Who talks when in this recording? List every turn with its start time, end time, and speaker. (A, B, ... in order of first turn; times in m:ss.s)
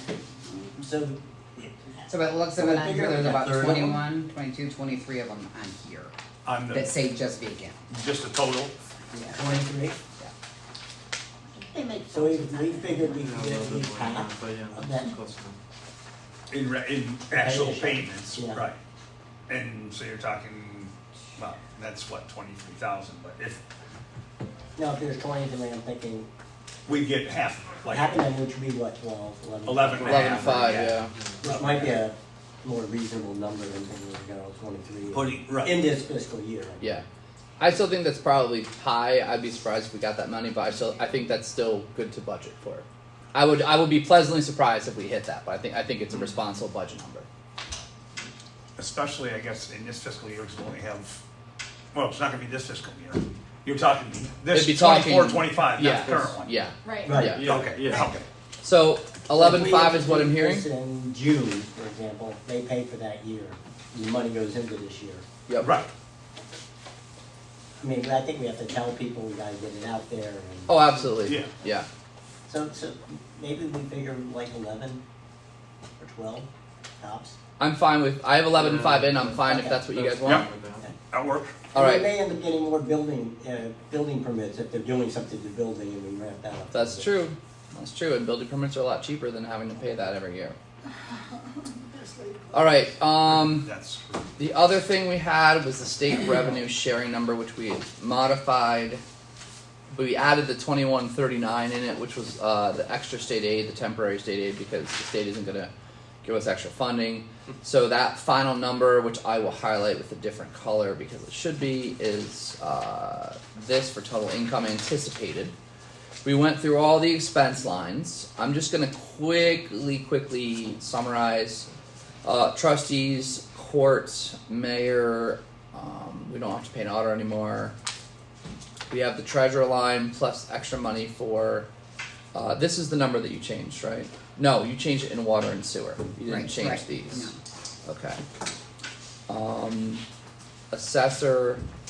0:00.5-0:00.8 A
0:00.8-0:04.0 B
0:02.1-0:06.1 A
0:06.4-0:06.9 C
0:06.7-0:07.8 A
0:07.9-0:08.8 C
0:09.1-0:09.5 A
0:09.3-0:10.0 B
0:11.5-0:13.1 D
0:12.1-0:15.1 B
0:12.9-0:15.6 E
0:16.5-0:18.8 C
0:17.3-0:18.7 B
0:19.5-0:23.6 C
0:24.8-0:26.3 B
0:26.8-0:28.3 C
0:27.8-0:30.9 B
0:29.6-0:32.0 C
0:30.0-0:31.1 F
0:31.0-0:31.4 E
0:31.4-0:37.0 B
0:35.1-0:35.8 C
0:37.6-0:47.3 F
0:48.8-0:51.2 C
0:51.9-0:56.5 C
0:54.5-0:57.5 F
0:55.8-0:56.4 E
0:56.8-0:57.3 D
0:57.0-0:57.6 B
0:57.2-0:58.1 E
0:57.4-0:58.2 C
0:58.6-1:00.7 F
0:59.3-1:05.2 B
1:05.6-1:05.9 C
1:07.8-1:11.1 B
1:10.7-1:11.9 F
1:11.2-1:11.5 C
1:12.4-1:15.0 B
1:16.0-1:16.5 B
1:17.0-1:17.4 B
1:17.6-1:20.4 F
1:18.5-1:20.8 E
1:19.4-1:19.8 B
1:21.1-1:21.6 C
1:21.7-1:27.1 B
1:21.7-1:22.1 F
1:26.7-1:30.6 F
1:32.5-1:33.7 F
1:33.2-1:34.3 C
1:34.4-1:39.0 F
1:39.9-1:45.7 F
1:46.2-1:55.5 F
1:56.2-2:01.7 F
2:02.2-2:07.7 F
2:08.9-2:11.7 F
2:12.3-2:17.3 F
2:16.2-2:17.4 A
2:17.8-2:18.2 F
2:19.3-2:20.0 F
2:20.7-2:21.6 F